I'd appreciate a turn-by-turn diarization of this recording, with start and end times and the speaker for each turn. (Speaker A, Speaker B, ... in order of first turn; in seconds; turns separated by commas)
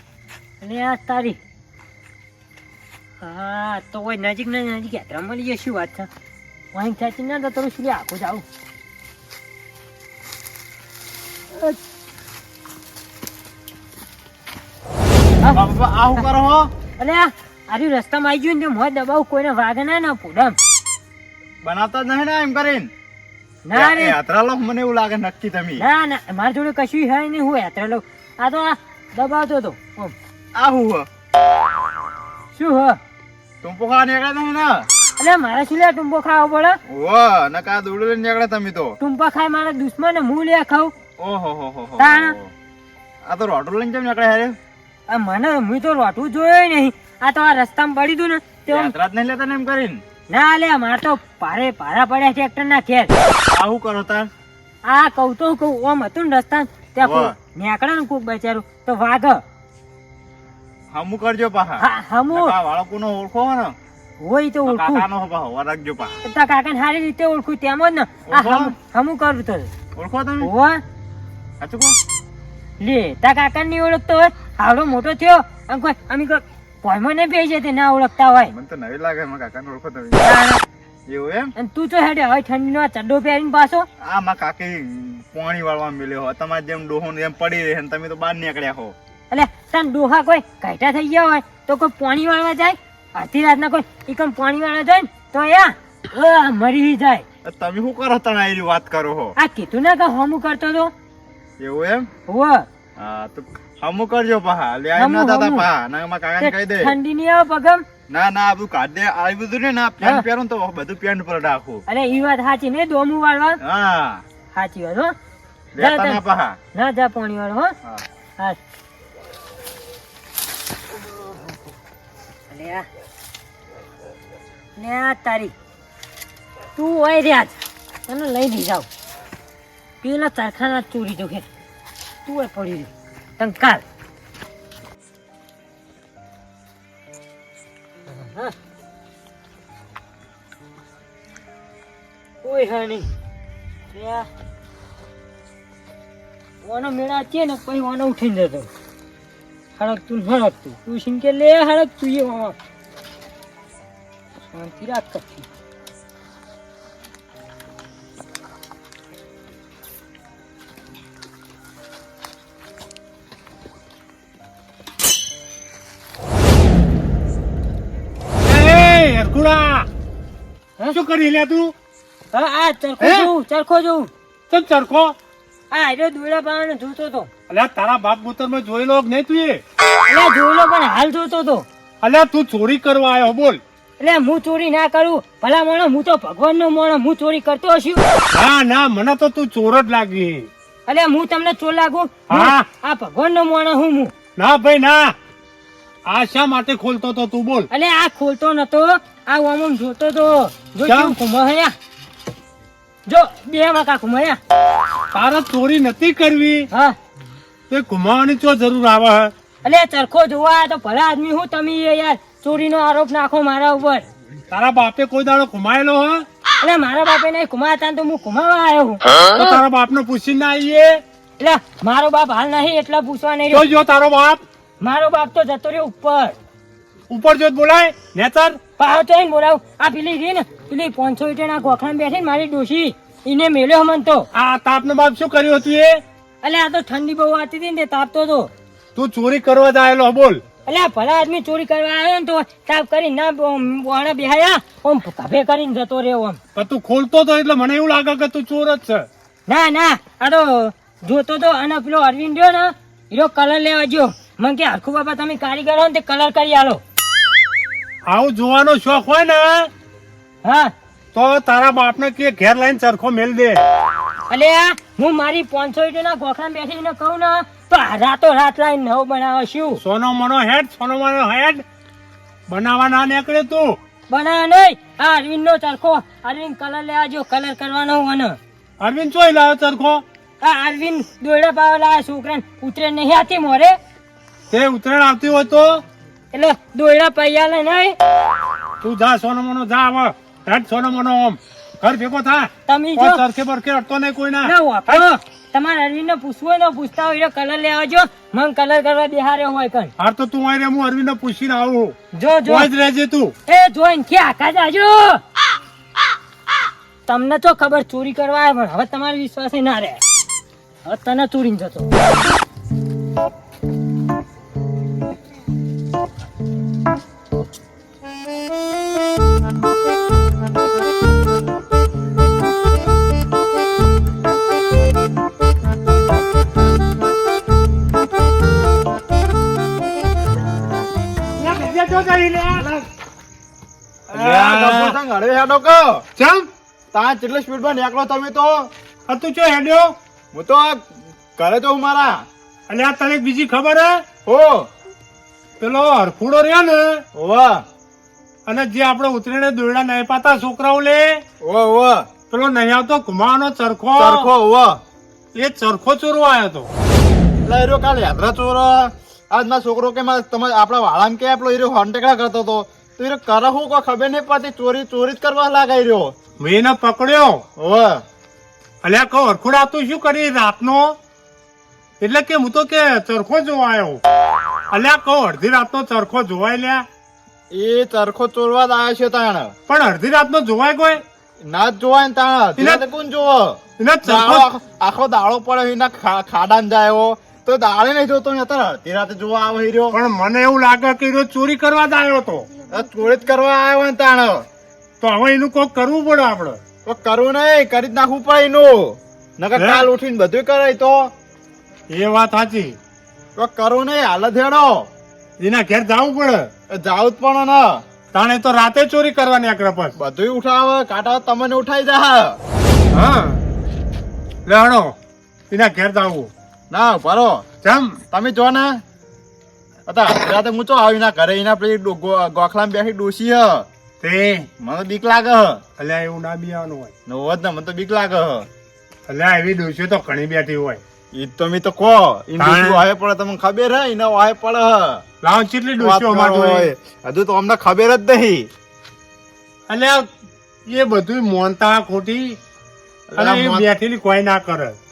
Speaker A: 0.6-1.4, Speaker A: 3.2-6.1, Speaker A: 6.7-8.4, Speaker B: 15.5-16.7, Speaker A: 17.0-20.6, Speaker B: 21.6-22.9, Speaker A: 23.6-24.2, Speaker B: 23.7-25.9, Speaker A: 25.8-30.1, Speaker B: 30.6-31.1, Speaker A: 32.5-33.0, Speaker B: 33.6-34.9, Speaker A: 35.2-36.8, Speaker B: 36.9-39.0, Speaker A: 39.0-40.9, Speaker B: 41.2-42.5, Speaker A: 42.0-42.4, Speaker B: 43.2-44.6, Speaker A: 45.1-48.9, Speaker B: 48.7-50.0, Speaker A: 50.3-53.1, Speaker B: 53.5-54.3, Speaker A: 54.9-59.4, Speaker B: 57.0-57.3, Speaker B: 60.9-63.7, Speaker A: 61.8-62.5, Speaker A: 64.2-65.1, Speaker B: 64.7-66.2, Speaker A: 66.2-69.7, Speaker B: 68.3-68.8, Speaker B: 70.0-70.5, Speaker A: 70.4-70.8, Speaker B: 71.6-72.0, Speaker A: 72.8-78.5, Speaker B: 78.5-80.3, Speaker A: 80.2-80.6, Speaker B: 81.1-81.5, Speaker A: 81.6-83.9, Speaker B: 84.0-89.0, Speaker A: 89.3-97.2, Speaker B: 97.5-99.3, Speaker A: 99.4-100.9, Speaker B: 101.6-102.1, Speaker A: 102.3-102.7, Speaker B: 103.0-107.0, Speaker A: 105.0-105.7, Speaker A: 106.4-107.8, Speaker B: 108.1-111.8, Speaker A: 111.9-113.6, Speaker B: 113.6-114.2, Speaker A: 114.5-115.1, Speaker B: 115.8-116.6, Speaker A: 115.8-116.2, Speaker A: 116.7-117.8, Speaker A: 122.5-122.9, Speaker A: 124.8-125.5, Speaker A: 126.8-128.9, Speaker A: 130.0-131.5, Speaker A: 132.2-133.8, Speaker A: 138.1-138.6, Speaker A: 142.4-143.1, Speaker A: 143.9-144.3, Speaker A: 146.6-148.7, Speaker A: 149.8-152.6, Speaker A: 154.5-155.5, Speaker C: 168.4-169.9, Speaker C: 170.9-171.7, Speaker A: 172.3-174.1, Speaker C: 173.0-173.3, Speaker C: 174.5-175.2, Speaker A: 175.7-177.3, Speaker C: 177.5-179.6, Speaker A: 180.1-181.7, Speaker C: 182.0-183.6, Speaker A: 184.0-188.0, Speaker C: 188.3-190.5, Speaker A: 190.9-194.1, Speaker C: 192.3-192.7, Speaker C: 194.4-195.1, Speaker C: 196.1-197.7, Speaker A: 197.7-201.7, Speaker C: 200.9-201.2, Speaker A: 203.1-204.4, Speaker C: 205.1-206.7, Speaker A: 206.7-207.0, Speaker C: 207.7-209.3, Speaker A: 209.6-214.1, Speaker C: 214.5-216.2, Speaker A: 216.6-219.6, Speaker C: 219.3-221.0, Speaker A: 221.4-223.7, Speaker C: 223.5-224.4, Speaker A: 224.8-226.4, Speaker C: 227.1-228.6, Speaker A: 228.8-234.3, Speaker C: 234.3-236.0, Speaker A: 236.4-238.5, Speaker C: 239.0-240.4, Speaker A: 240.7-246.4, Speaker C: 246.6-249.1, Speaker A: 249.5-256.8, Speaker C: 258.1-259.7, Speaker A: 260.4-260.7, Speaker C: 261.1-263.6, Speaker A: 264.3-269.8, Speaker C: 269.8-271.6, Speaker C: 272.5-273.8, Speaker A: 274.1-278.4, Speaker C: 278.8-280.0, Speaker A: 280.4-283.8, Speaker C: 284.5-285.8, Speaker A: 286.3-287.9, Speaker C: 288.8-295.0, Speaker A: 292.7-293.2, Speaker A: 294.4-299.9, Speaker C: 300.0-302.0, Speaker A: 302.1-302.7, Speaker C: 302.5-303.3, Speaker A: 303.5-305.2, Speaker A: 307.1-310.0, Speaker A: 310.9-311.9, Speaker C: 331.4-332.9, Speaker B: 334.1-336.1, Speaker C: 334.1-335.0, Speaker C: 336.2-336.5, Speaker B: 336.9-338.7, Speaker C: 339.1-339.9, Speaker B: 340.3-342.3, Speaker C: 342.7-344.0, Speaker B: 344.3-344.7, Speaker C: 345.6-347.0, Speaker B: 347.1-347.6, Speaker C: 348.5-351.2, Speaker B: 351.4-352.1, Speaker C: 352.3-354.3, Speaker B: 354.0-354.8, Speaker C: 355.4-356.7, Speaker B: 357.4-366.1, Speaker C: 366.4-367.4, Speaker B: 367.6-368.0, Speaker C: 368.8-371.0, Speaker C: 372.0-374.0, Speaker C: 374.7-376.9, Speaker B: 377.5-379.5, Speaker C: 379.7-381.0, Speaker B: 381.4-390.0, Speaker C: 382.6-382.8, Speaker C: 383.8-384.5, Speaker C: 389.9-392.5, Speaker B: 392.7-394.5, Speaker C: 395.0-396.6, Speaker B: 396.9-401.1, Speaker C: 399.6-399.9, Speaker C: 401.9-402.8, Speaker B: 403.4-404.9, Speaker C: 405.4-406.5, Speaker B: 406.7-407.8, Speaker C: 408.1-409.9, Speaker B: 410.0-412.4, Speaker C: 412.9-413.4, Speaker C: 414.5-414.9, Speaker C: 415.5-416.3, Speaker B: 416.7-417.4, Speaker C: 417.6-418.0, Speaker B: 418.1-418.8, Speaker B: 419.9-423.7, Speaker C: 424.0-424.5, Speaker B: 424.6-425.6, Speaker C: 425.8-426.9, Speaker B: 427.1-428.5, Speaker C: 429.1-430.8, Speaker B: 431.1-435.0, Speaker C: 432.4-432.8, Speaker C: 435.2-436.7, Speaker B: 435.8-438.5, Speaker C: 439.7-440.1, Speaker C: 440.7-442.4, Speaker B: 443.1-443.7, Speaker C: 443.2-444.8